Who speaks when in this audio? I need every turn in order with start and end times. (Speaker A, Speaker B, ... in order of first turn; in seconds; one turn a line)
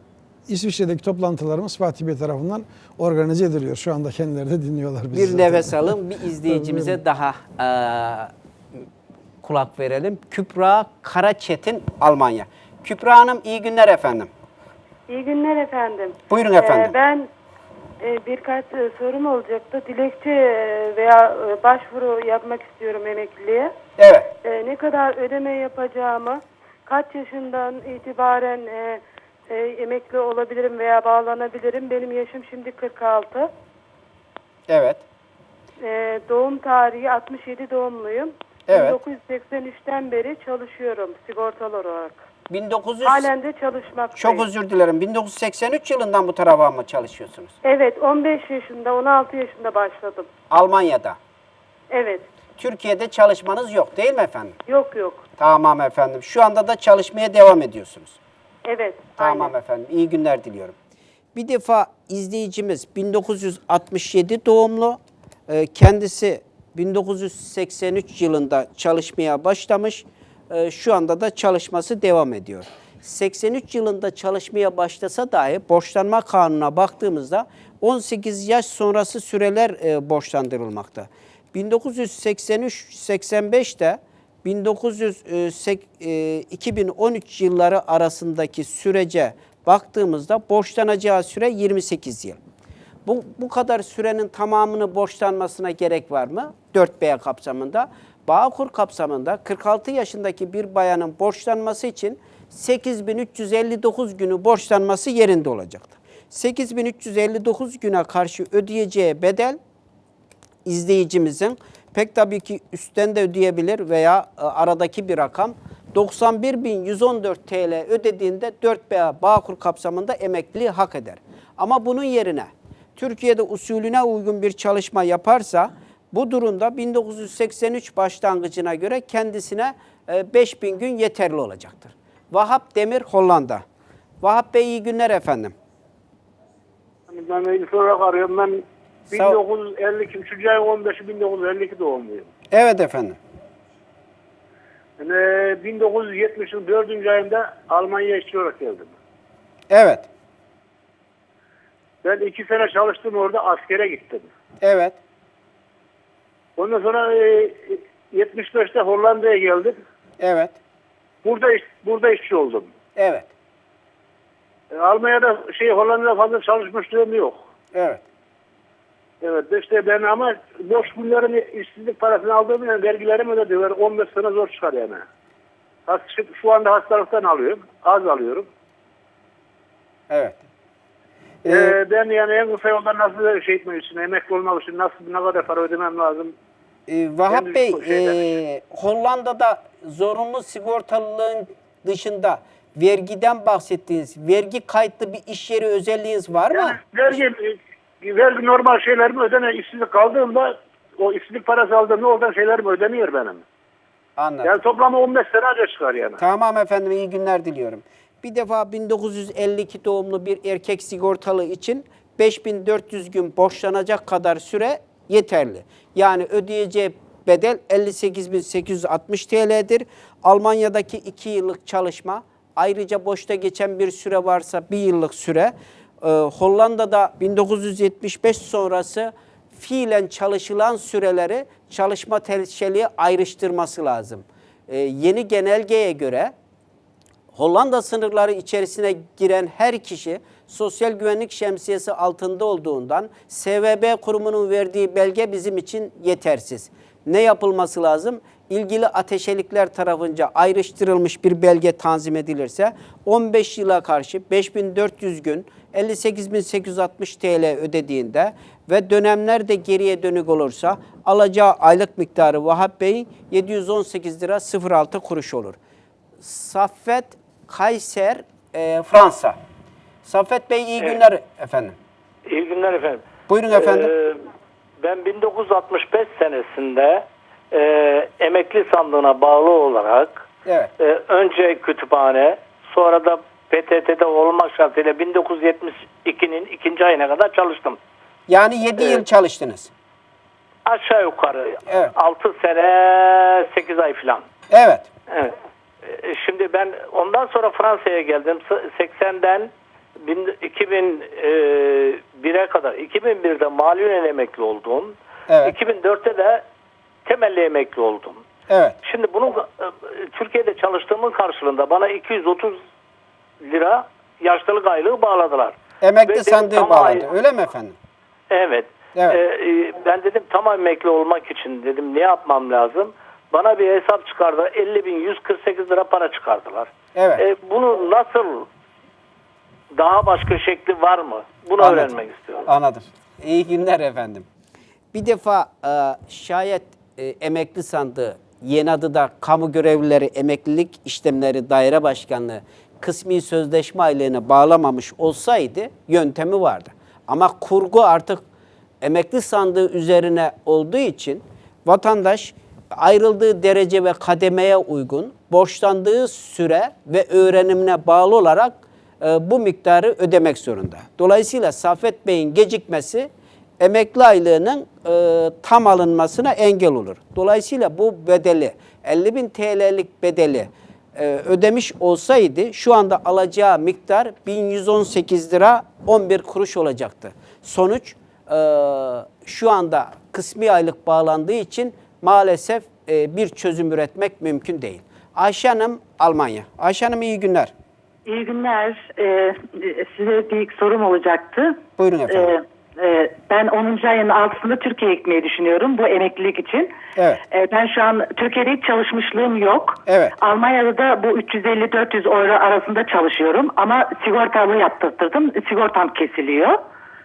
Speaker A: 0.5-5.7
Speaker B: 5.1-8.3
Speaker A: 6.5-6.9
Speaker B: 9.4-14.3
Speaker C: 15.1-17.3
Speaker B: 16.3-16.9
Speaker C: 18.0-23.7
Speaker B: 24.0-24.3
Speaker C: 24.4-33.5
Speaker B: 34.7-35.0
Speaker C: 35.8-42.2
Speaker B: 38.7-39.0
Speaker B: 42.5-43.3
Speaker C: 43.0-44.4
Speaker B: 44.1-47.5
Speaker C: 47.6-50.3
Speaker B: 50.5-51.2
Speaker C: 51.9-52.3
Speaker B: 52.6-54.5
Speaker C: 54.7-55.2
Speaker B: 55.4-58.2
Speaker C: 58.6-59.5
Speaker B: 59.2-60.7
Speaker B: 61.3-92.4
Speaker B: 93.0-109.6
Speaker B: 110.6-133.6
Speaker B: 134.2-135.5
Speaker D: 137.1-142.3
Speaker B: 139.1-139.4
Speaker B: 142.5-143.2
Speaker D: 145.0-148.9
Speaker B: 149.7-150.1
Speaker D: 152.0-154.3
Speaker B: 154.6-155.0
Speaker D: 156.6-159.8
Speaker B: 160.2-160.6
Speaker D: 161.2-162.7
Speaker B: 163.0-163.3
Speaker D: 164.7-167.4
Speaker B: 167.7-168.0
Speaker D: 169.2-175.0
Speaker D: 175.9-178.5
Speaker B: 180.1-180.4
Speaker B: 181.4-181.7
Speaker D: 181.5-186.3
Speaker B: 186.9-197.1
Speaker D: 187.3-188.1
Speaker D: 196.5-203.4
Speaker B: 204.2-204.5
Speaker D: 204.4-206.2
Speaker B: 206.2-236.3
Speaker B: 237.3-265.6
Speaker B: 266.2-269.4
Speaker B: 270.0-271.8
Speaker E: 272.3-274.2
Speaker B: 273.3-273.9
Speaker E: 274.8-280.2
Speaker B: 280.4-280.7
Speaker E: 280.8-287.8
Speaker B: 288.3-289.7
Speaker E: 290.6-294.2
Speaker B: 291.7-291.9
Speaker B: 294.5-294.9
Speaker E: 295.9-299.5
Speaker E: 300.0-306.4
Speaker B: 305.3-305.6
Speaker E: 307.1-308.2
Speaker B: 308.5-308.8
Speaker E: 308.8-312.6
Speaker E: 313.4-317.1
Speaker B: 315.8-317.8
Speaker E: 318.3-328.5
Speaker B: 318.9-319.2
Speaker B: 326.9-327.2
Speaker E: 329.8-332.5
Speaker B: 331.6-334.2
Speaker B: 334.9-348.2
Speaker B: 348.8-363.1
Speaker B: 363.6-387.5
Speaker F: 388.1-391.6
Speaker B: 391.8-392.3
Speaker F: 392.1-396.7
Speaker B: 396.9-397.2
Speaker F: 397.3-406.6
Speaker B: 399.9-400.1